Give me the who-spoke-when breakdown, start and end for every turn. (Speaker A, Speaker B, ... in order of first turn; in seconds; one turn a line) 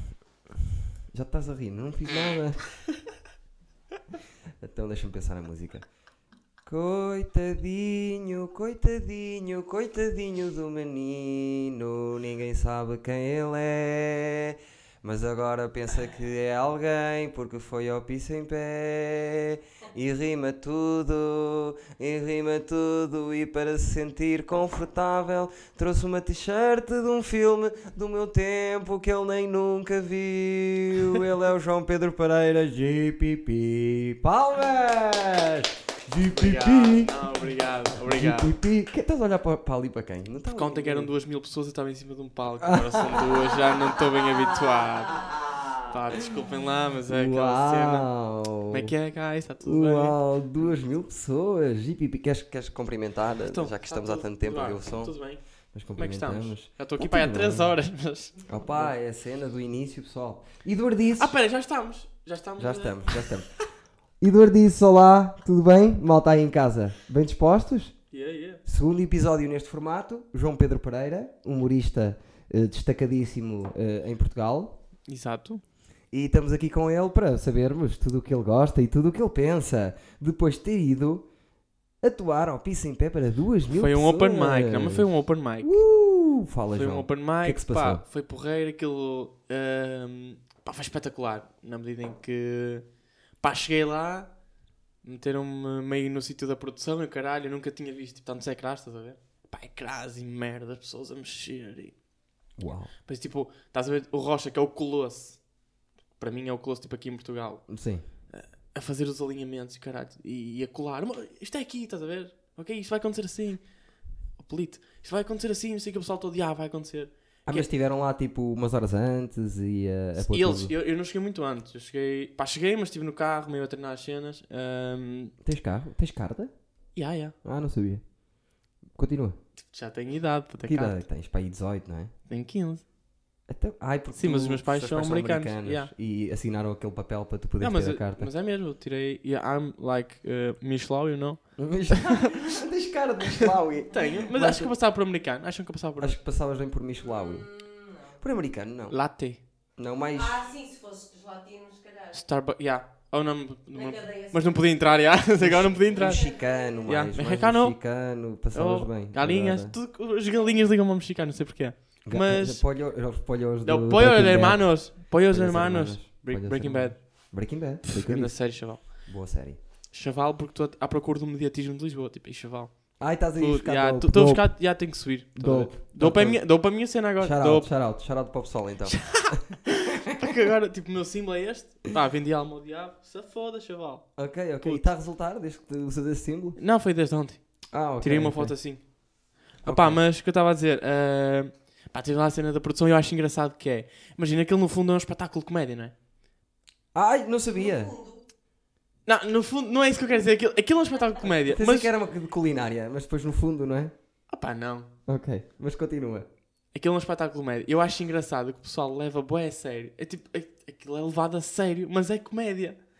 Speaker A: 1.1-2.9
Speaker A: 4.6-5.9
Speaker A: 6.6-37.2
Speaker B: 36.3-38.5
Speaker A: 37.9-41.1
Speaker B: 40.5-48.1
Speaker A: 42.6-46.4
Speaker A: 47.0-48.9
Speaker B: 48.7-50.2
Speaker A: 49.6-55.2
Speaker B: 53.4-55.4
Speaker A: 55.7-57.8
Speaker B: 55.9-58.9
Speaker A: 58.5-61.4
Speaker B: 61.2-63.6
Speaker A: 62.6-63.5
Speaker A: 64.2-68.0
Speaker B: 68.1-68.6
Speaker A: 68.6-74.8
Speaker B: 75.1-75.6
Speaker A: 76.1-81.3
Speaker A: 82.0-85.1
Speaker B: 83.7-85.8
Speaker A: 85.6-88.0
Speaker B: 86.7-92.8
Speaker B: 93.4-94.3
Speaker B: 95.0-101.9
Speaker A: 102.6-102.9
Speaker B: 103.1-105.4
Speaker B: 106.2-107.7
Speaker A: 107.7-108.0
Speaker B: 108.3-113.6
Speaker B: 114.4-117.7
Speaker A: 117.5-120.7
Speaker B: 120.2-125.3
Speaker A: 125.4-126.5
Speaker B: 127.0-127.3
Speaker A: 127.4-128.0
Speaker A: 128.9-129.4
Speaker B: 129.7-131.0
Speaker A: 130.6-132.1
Speaker B: 132.3-132.8
Speaker A: 133.5-138.3
Speaker B: 134.1-135.9
Speaker B: 137.6-142.4
Speaker A: 141.6-144.7
Speaker B: 143.4-146.2
Speaker A: 146.0-147.4
Speaker C: 147.0-148.2
Speaker A: 148.2-149.0
Speaker B: 148.9-149.4
Speaker A: 149.8-150.4
Speaker C: 150.1-152.2
Speaker B: 152.1-157.8
Speaker C: 153.7-155.2
Speaker A: 155.4-159.7
Speaker C: 155.7-156.8
Speaker B: 158.5-162.6
Speaker A: 162.0-169.6
Speaker B: 163.6-167.4
Speaker B: 167.9-169.1
Speaker B: 169.9-177.7
Speaker A: 173.0-174.8
Speaker A: 175.3-176.6
Speaker A: 177.2-179.5
Speaker B: 178.8-184.9
Speaker A: 184.2-186.6
Speaker B: 186.6-188.8
Speaker A: 187.7-188.6
Speaker B: 189.6-195.9
Speaker A: 189.6-190.0
Speaker A: 196.9-197.9
Speaker C: 197.5-198.2
Speaker B: 199.1-201.9
Speaker A: 201.4-203.9
Speaker B: 204.3-204.9
Speaker A: 205.1-206.3
Speaker B: 206.7-212.8